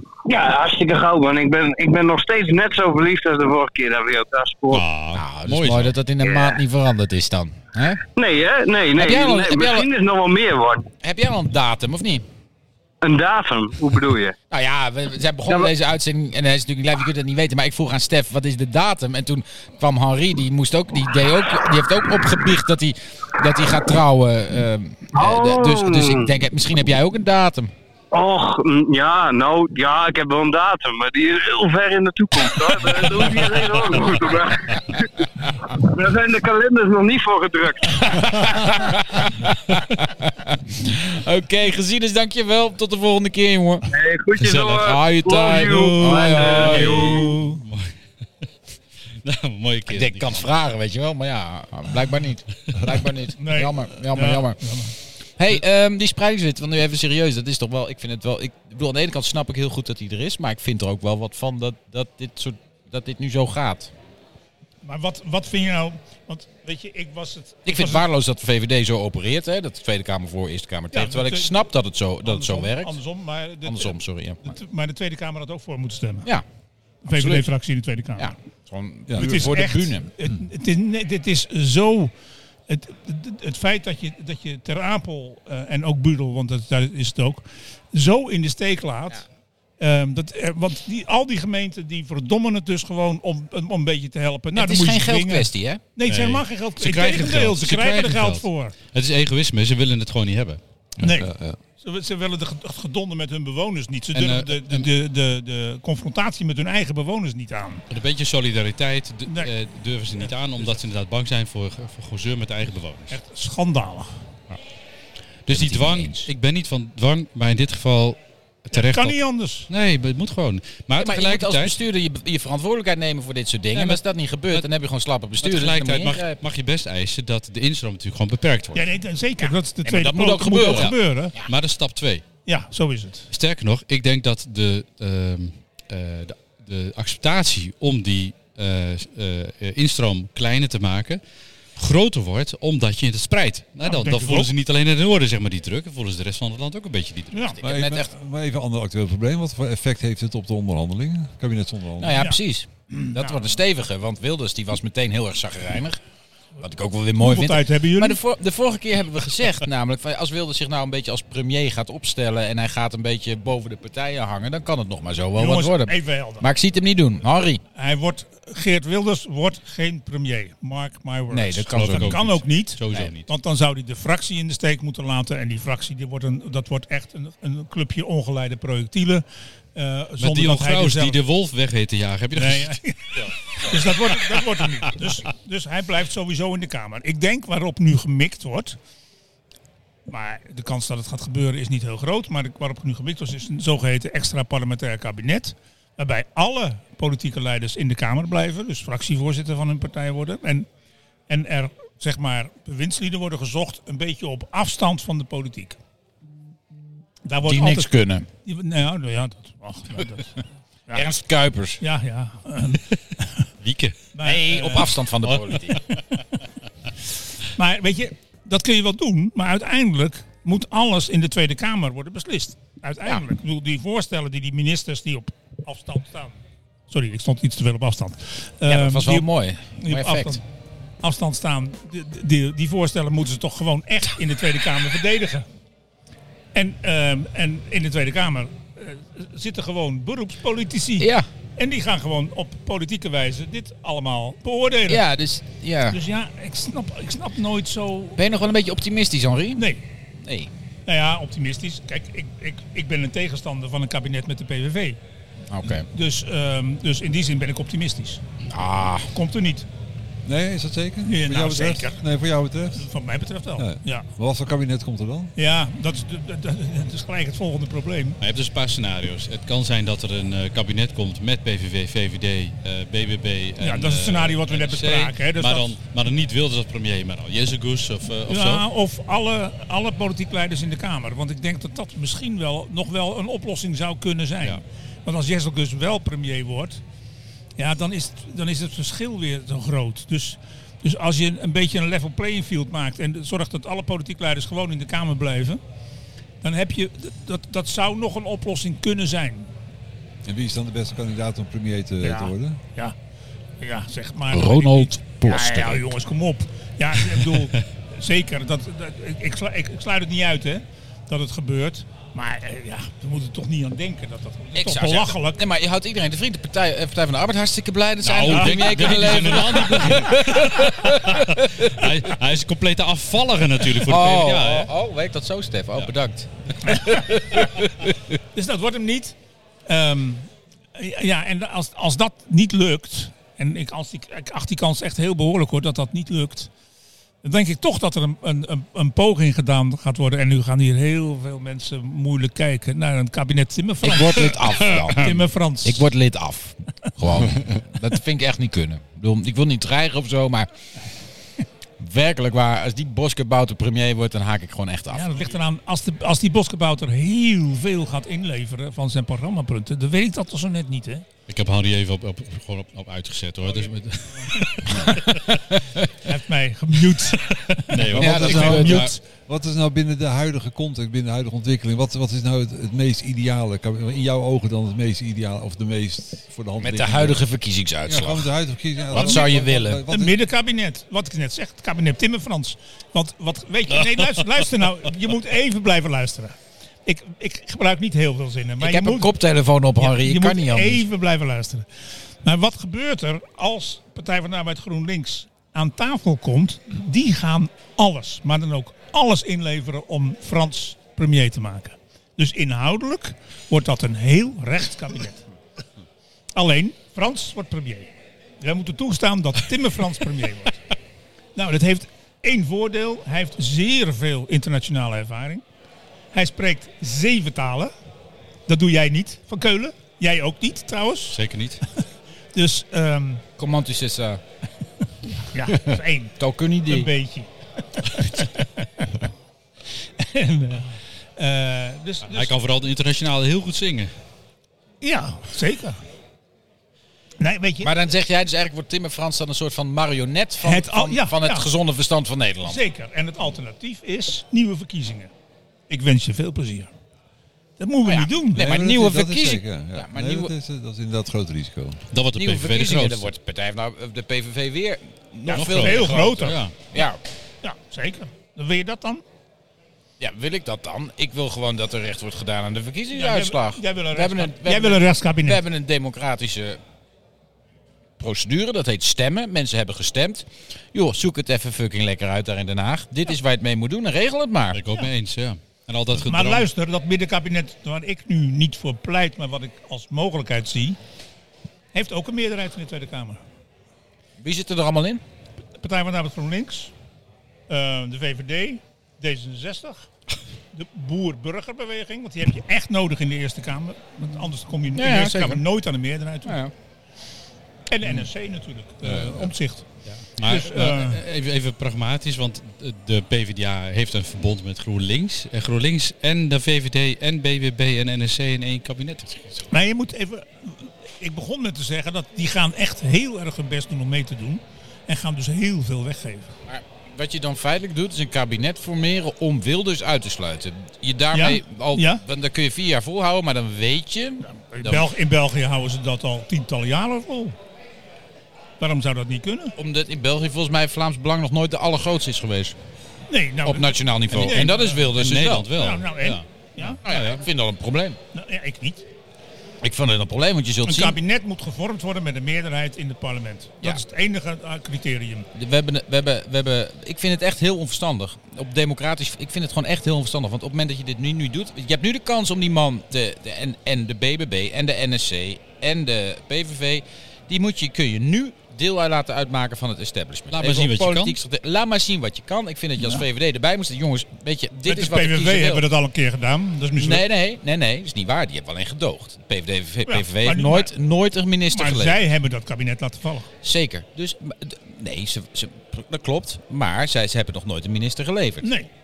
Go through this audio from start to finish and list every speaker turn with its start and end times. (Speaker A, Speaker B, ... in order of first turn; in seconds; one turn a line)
Speaker A: 0.3-4.8
Speaker B: 4.7-6.0
Speaker C: 5.1-8.0
Speaker A: 6.2-6.6
Speaker A: 8.2-10.9
Speaker C: 9.0-9.9
Speaker C: 11.0-12.2
Speaker A: 13.0-14.3
Speaker C: 14.5-27.7
Speaker A: 25.1-26.3
Speaker A: 28.1-38.8
Speaker C: 38.1-43.9
Speaker A: 43.9-47.4
Speaker B: 44.4-45.0
Speaker C: 44.8-47.3
Speaker D: 45.6-47.6
Speaker B: 46.8-47.9
Speaker B: 49.2-50.5
Speaker C: 49.9-54.6
Speaker D: 53.4-55.0
Speaker C: 55.4-63.9
Speaker D: 64.8-68.1
Speaker C: 67.7-73.0
Speaker D: 70.9-71.5
Speaker D: 72.2-76.3
Speaker C: 73.6-74.5
Speaker D: 77.0-78.3
Speaker C: 77.1-77.5
Speaker C: 78.2-80.1
Speaker E: 79.1-79.7
Speaker D: 79.2-82.1
Speaker D: 82.7-89.2
Speaker D: 89.8-98.7
Speaker C: 94.5-95.8
Speaker B: 96.1-100.6
Speaker E: 101.0-101.6
Speaker D: 101.0-107.8
Speaker B: 104.1-104.9
Speaker B: 107.9-113.2
Speaker D: 110.2-110.6
Speaker D: 113.1-114.2
Speaker C: 115.5-116.3
Speaker B: 115.5-119.2
Speaker D: 118.7-119.7
Speaker B: 119.7-121.8
Speaker C: 121.0-126.4
Speaker B: 123.7-124.7
Speaker B: 125.4-128.9
Speaker D: 128.7-131.3
Speaker C: 129.8-131.5
Speaker B: 130.7-132.2
Speaker D: 132.5-133.3
Speaker B: 133.3-141.2
Speaker B: 141.8-147.6
Speaker D: 143.8-144.5
Speaker D: 147.3-147.6
Speaker C: 147.6-148.1
Speaker E: 147.6-152.3
Speaker C: 152.0-156.0
Speaker D: 152.1-152.4
Speaker D: 152.9-153.4
Speaker C: 156.6-167.6
Speaker D: 157.2-158.2
Speaker D: 165.4-166.5
Speaker D: 167.8-179.2
Speaker C: 171.3-172.2
Speaker B: 171.7-173.3
Speaker D: 179.8-181.2
Speaker B: 180.2-184.4
Speaker D: 182.4-188.8
Speaker D: 190.1-200.7
Speaker D: 201.3-205.8
Speaker D: 207.3-207.9
Speaker C: 207.4-208.3
Speaker D: 208.4-211.1
Speaker C: 210.9-211.8
Speaker D: 211.8-213.4
Speaker B: 213.6-214.0
Speaker D: 214.1-215.0
Speaker C: 214.2-215.8
Speaker B: 215.3-215.8
Speaker D: 217.6-229.3
Speaker C: 228.7-230.4
Speaker D: 229.8-230.4
Speaker D: 231.0-235.5
Speaker D: 236.5-245.0
Speaker C: 241.0-241.3
Speaker C: 244.9-246.0
Speaker D: 245.9-248.2
Speaker C: 248.2-249.6
Speaker D: 249.6-249.8
Speaker C: 250.2-250.5
Speaker D: 250.9-255.0
Speaker C: 255.5-255.9
Speaker D: 255.9-258.2
Speaker C: 258.5-259.1
Speaker D: 259.1-259.7
Speaker E: 260.2-262.9
Speaker D: 261.1-262.0
Speaker D: 262.7-264.1
Speaker E: 263.6-265.3
Speaker D: 265.4-268.2
Speaker B: 268.2-278.6
Speaker D: 273.6-275.7
Speaker D: 278.3-286.8
Speaker D: 287.6-295.6
Speaker D: 296.4-299.5
Speaker E: 300.2-302.6
Speaker D: 302.0-302.9
Speaker D: 303.6-315.4
Speaker C: 304.3-305.9
Speaker C: 314.6-321.9
Speaker B: 318.0-324.7
Speaker D: 318.3-319.4
Speaker C: 323.8-328.2
Speaker D: 328.3-329.2
Speaker D: 329.7-336.5
Speaker D: 337.2-345.9
Speaker C: 343.8-350.5
Speaker C: 351.8-355.2
Speaker D: 354.9-361.1
Speaker B: 361.3-365.2
Speaker D: 363.5-364.7
Speaker C: 364.7-365.9
Speaker D: 366.1-368.9
Speaker B: 367.7-368.9
Speaker E: 367.8-377.2
Speaker C: 368.0-369.0
Speaker C: 376.6-378.3
Speaker E: 377.9-380.2
Speaker C: 378.9-379.8
Speaker D: 378.9-379.3
Speaker D: 379.9-389.1
Speaker C: 388.6-390.8
Speaker D: 389.8-391.7
Speaker D: 392.2-405.2
Speaker D: 406.4-410.6
Speaker D: 411.4-415.4
Speaker D: 416.1-417.7
Speaker D: 418.5-421.2
Speaker B: 421.1-421.6
Speaker D: 422.3-423.2
Speaker C: 423.4-424.2
Speaker D: 425.1-429.1
Speaker C: 426.2-426.9
Speaker D: 430.0-432.3
Speaker B: 432.1-433.9
Speaker D: 434.8-435.8
Speaker D: 437.2-437.7
Speaker C: 437.6-442.6
Speaker D: 440.4-441.5
Speaker D: 442.4-445.1
Speaker D: 445.7-446.7
Speaker D: 447.6-448.5
Speaker C: 447.9-450.3
Speaker E: 448.3-451.8
Speaker B: 451.9-453.1
Speaker C: 452.1-457.0
Speaker D: 455.3-456.4
Speaker B: 455.4-456.5
Speaker D: 457.4-459.0
Speaker C: 460.0-466.6
Speaker D: 462.9-465.4
Speaker C: 468.0-474.6
Speaker B: 474.5-476.5
Speaker D: 476.0-480.8
Speaker D: 481.7-483.2
Speaker C: 484.2-485.0
Speaker D: 485.6-486.7
Speaker D: 487.5-489.9
Speaker D: 490.5-496.4
Speaker C: 494.8-495.4
Speaker C: 496.2-496.5
Speaker D: 497.7-499.6
Speaker E: 498.8-499.3
Speaker B: 500.2-509.5
Speaker D: 500.2-501.0
Speaker D: 509.5-516.3
Speaker C: 516.5-524.9
Speaker D: 521.1-522.0
Speaker D: 524.3-527.4
Speaker D: 528.6-529.5
Speaker C: 529.6-532.5
Speaker D: 533.1-534.9
Speaker C: 533.4-535.5
Speaker B: 534.3-537.2
Speaker D: 535.5-536.8
Speaker C: 536.9-538.0
Speaker D: 538.1-538.9
Speaker C: 539.6-541.0
Speaker D: 540.6-545.3
Speaker C: 545.3-565.7
Speaker B: 560.3-561.2
Speaker D: 564.7-567.1
Speaker C: 566.8-572.0
Speaker D: 569.9-570.7
Speaker D: 571.5-573.3
Speaker C: 573.4-578.5
Speaker D: 578.4-578.7